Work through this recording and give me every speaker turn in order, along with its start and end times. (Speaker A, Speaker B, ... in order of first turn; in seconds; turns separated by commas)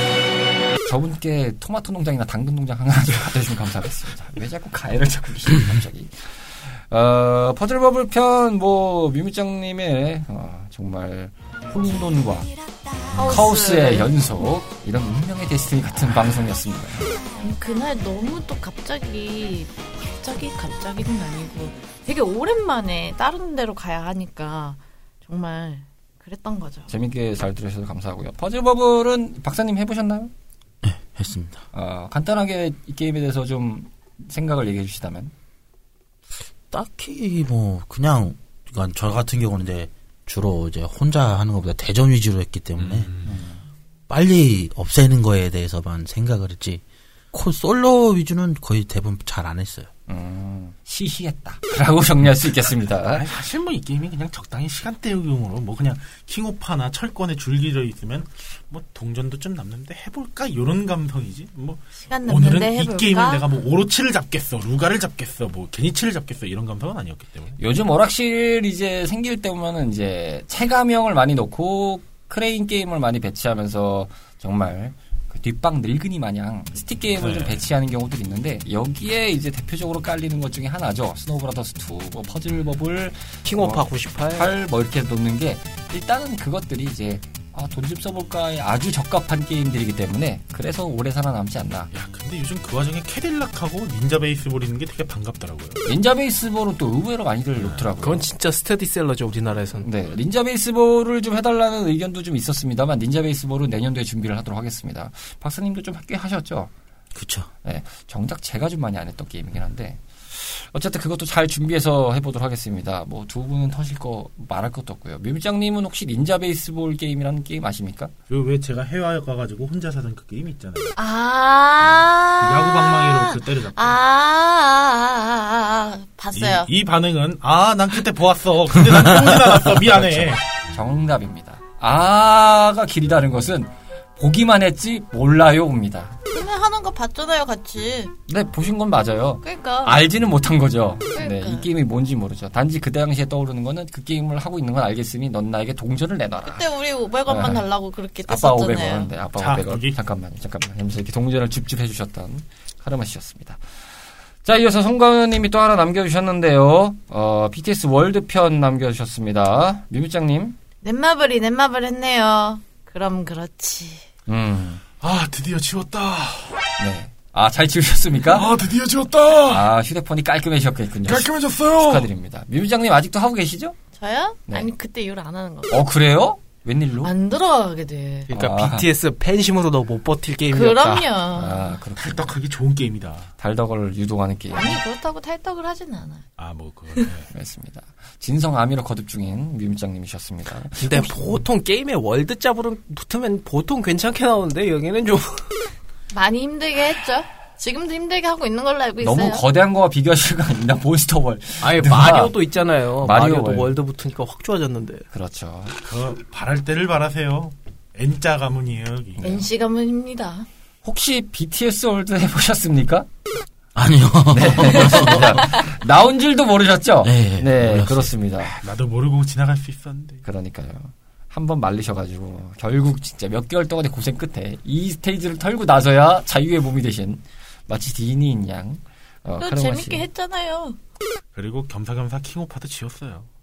Speaker A: 0.9-12.5, Speaker B: 13.1-14.1, Speaker A: 13.2-17.1, Speaker B: 17.4-26.9, Speaker A: 26.9-30.3, Speaker C: 30.8-31.6, Speaker A: 31.7-35.3, Speaker C: 36.7-43.1, Speaker D: 42.8-43.4, Speaker A: 43.2-43.6, Speaker C: 44.1-46.8, Speaker C: 47.3-49.9, Speaker A: 50.1-53.2, Speaker D: 53.1-67.6, Speaker B: 62.1-63.5, Speaker A: 67.6-91.9, Speaker D: 77.2-77.6, Speaker E: 83.5-84.5, Speaker D: 91.9-95.8, Speaker A: 95.8-98.3, Speaker D: 97.6-97.9, Speaker E: 98.0-99.9, Speaker A: 99.8-106.7, Speaker C: 107.2-107.5, Speaker A: 107.7-118.1, Speaker D: 118.3-121.0, Speaker B: 121.0-126.7, Speaker D: 121.9-124.0, Speaker D: 126.3-130.4, Speaker A: 129.6-136.2, Speaker B: 136.3-138.1, Speaker A: 138.3-146.7, Speaker B: 139.4-140.0, Speaker B: 141.1-141.7, Speaker B: 146.4-149.1, Speaker A: 147.3-147.7, Speaker A: 148.3-153.6, Speaker D: 149.4-150.0, Speaker A: 154.4-160.6, Speaker B: 160.8-164.0, Speaker A: 164.3-164.8, Speaker D: 165.0-166.6, Speaker A: 166.8-168.5, Speaker D: 168.3-169.7, Speaker A: 169.5-173.8, Speaker D: 171.1-172.1, Speaker B: 174.0-175.8, Speaker A: 175.7-177.1, Speaker B: 177.0-178.3, Speaker E: 178.3-181.1, Speaker A: 178.3-178.9, Speaker B: 180.5-181.8, Speaker A: 181.3-182.3, Speaker D: 182.0-183.3, Speaker A: 183.4-184.8, Speaker B: 184.5-186.2, Speaker D: 186.4-187.3, Speaker A: 187.3-191.4, Speaker E: 190.8-195.6, Speaker B: 196.1-199.4, Speaker A: 199.0-202.3, Speaker E: 201.6-205.1, Speaker A: 203.0-203.7, Speaker A: 205.1-205.7, Speaker D: 205.8-209.4, Speaker B: 209.2-210.5, Speaker A: 210.8-213.1, Speaker C: 213.8-215.4, Speaker A: 214.3-218.5, Speaker C: 217.0-218.1, Speaker D: 218.4-220.2, Speaker A: 220.2-230.1, Speaker B: 229.4-230.8, Speaker D: 231.3-233.3